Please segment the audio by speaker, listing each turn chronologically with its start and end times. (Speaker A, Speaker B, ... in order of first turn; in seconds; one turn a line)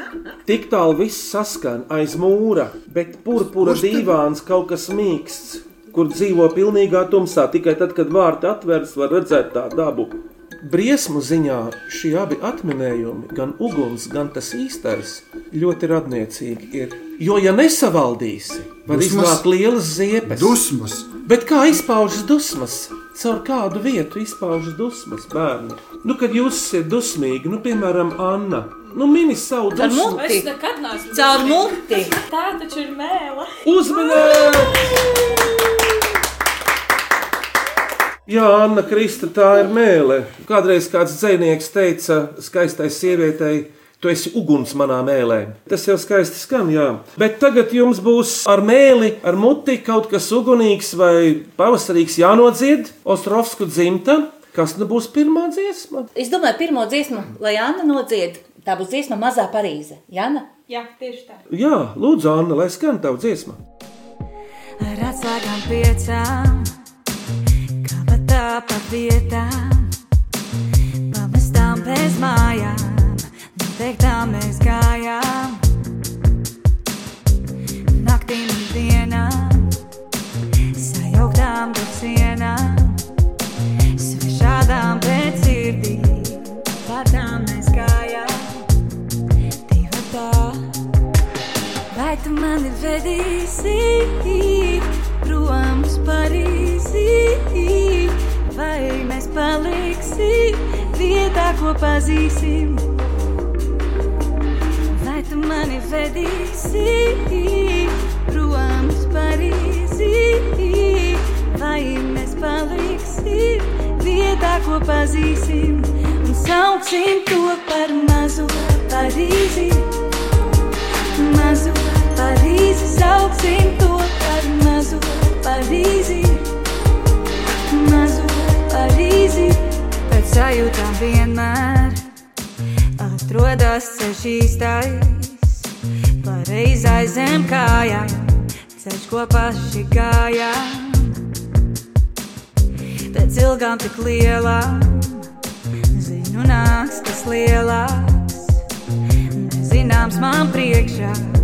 Speaker A: 0.5-20.6
Speaker B: 3.6-4.1
Speaker B: 18.9-19.4
Speaker B: 20.2-21.1
Speaker A: 21.2-30.2
Speaker C: 29.8-30.5
Speaker D: 30.1-35.0
Speaker C: 31.1-32.2
Speaker A: 33.6-35.4
Speaker A: 38.3-56.1
Speaker C: 56.1-60.5
Speaker D: 60.7-61.4
Speaker A: 61.5-63.6
Speaker E: 64.8-66.7
Speaker E: 67.8-69.9
Speaker E: 71.1-75.6
Speaker E: 77.9-79.8
Speaker E: 80.8-83.0
Speaker E: 84.0-88.6
Speaker E: 89.7-90.6
Speaker E: 91.9-102.8
Speaker E: 104.9-119.9
Speaker E: 121.2-126.4
Speaker E: 127.7-132.0
Speaker E: 133.0-135.6
Speaker E: 136.2-138.2
Speaker E: 138.8-141.1
Speaker E: 143.1-145.3
Speaker E: 145.9-148.5
Speaker E: 149.3-151.2